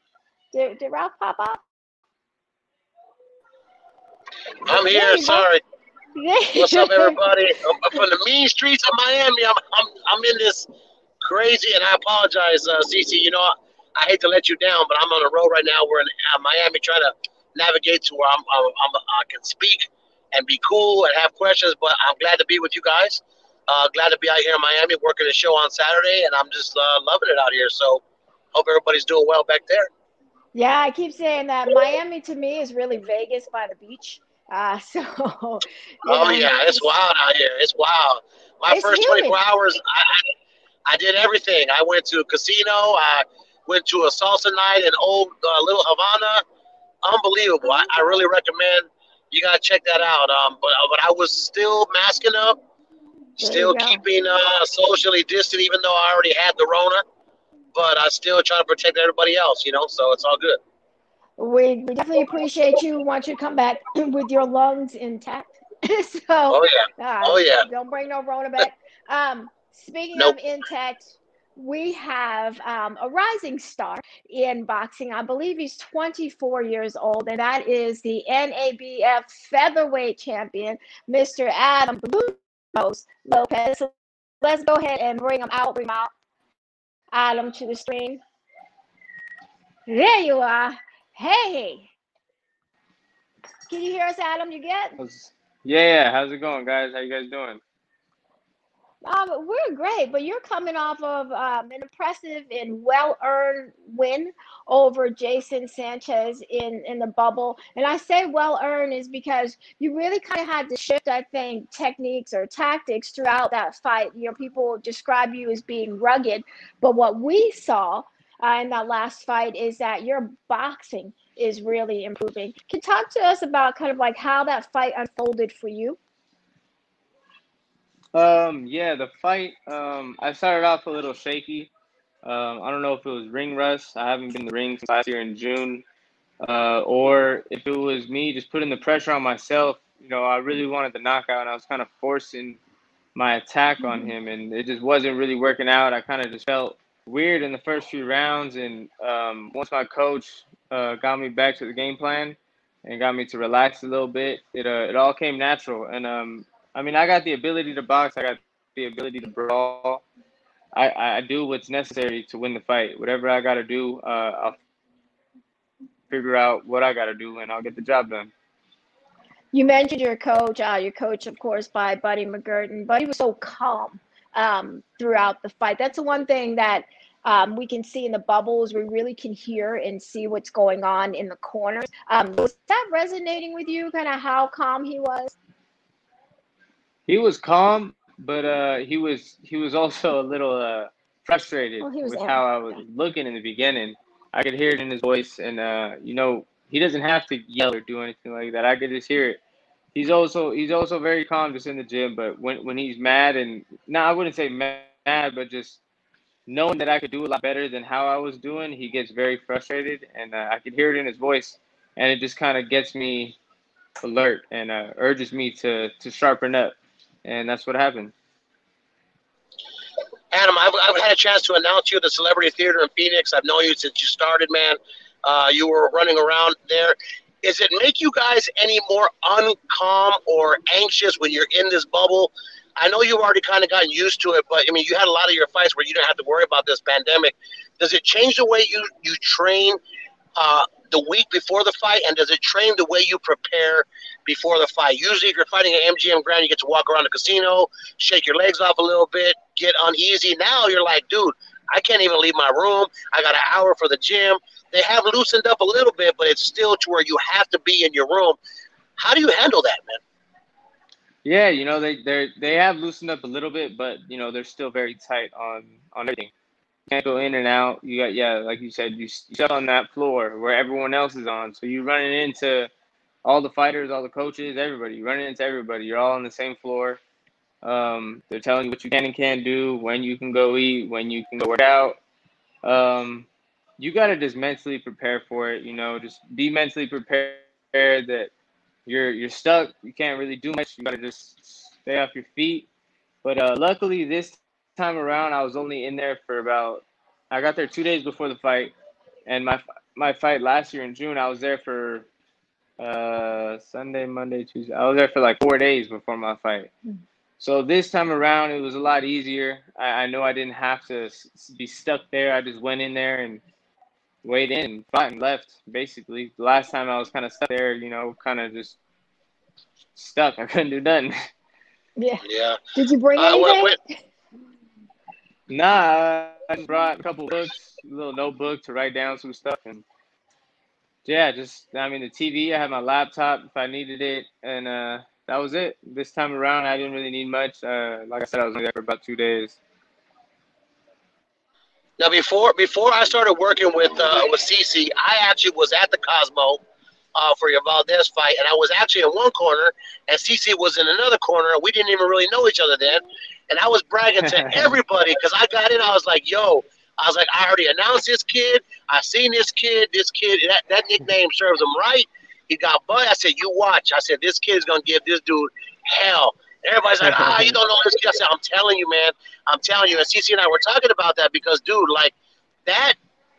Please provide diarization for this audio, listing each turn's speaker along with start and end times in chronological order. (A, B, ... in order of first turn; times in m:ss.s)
0:00.5-0:01.6 A
0:04.6-0:05.6 B
0:04.7-0:05.5 A
0:06.2-0:07.2 A
0:06.6-0:10.7 B
0:11.2-0:28.0 B
0:28.5-0:29.9 B
0:30.5-0:36.9 A
0:36.1-0:40.3 B
0:38.7-0:39.4 A
0:40.9-0:46.4 B
0:47.0-0:52.6 B
0:53.4-0:54.0 A
0:53.4-0:57.0 B
0:57.7-1:00.6 B
1:01.4-1:26.1 A
1:06.5-1:07.6 B
1:27.1-1:28.2 A
1:29.9-1:31.9 A
1:33.7-1:35.0 A
1:35.0-1:37.6 C
1:39.0-2:06.0 A
2:08.1-2:11.7 C
2:12.2-2:15.8 C
2:16.4-2:22.6 C
2:23.2-2:40.0 C
2:23.8-2:24.1 A
2:40.7-2:44.6 C
2:46.1-2:48.3 C
2:49.5-3:05.4 A
3:07.1-3:19.4 C
3:11.8-3:12.4 A
3:20.0-3:25.8 C
3:26.5-3:33.4 C
3:34.0-3:38.1 C
3:40.3-3:59.8 B
4:00.4-4:18.4 B
4:19.0-4:20.0 B
4:21.2-4:26.3 C
4:26.9-4:32.7 C
4:33.2-4:37.0 C
4:37.6-4:42.0 C
4:42.6-4:43.3 C
4:43.8-4:48.3 C
4:48.9-4:52.7 C
4:53.2-4:58.7 C
4:59.3-5:02.1 C
5:02.8-5:06.7 C
5:07.4-5:13.4 C
5:14.2-5:18.8 C
5:20.0-5:21.3 C
5:22.0-5:23.8 A
5:22.2-5:22.6 B
5:23.2-5:23.8 B
5:25.5-5:29.8 C
5:31.0-5:39.6 C
5:42.0-5:46.6 B
5:47.2-6:12.1 B
6:07.0-6:07.5 C
6:12.7-6:13.0 B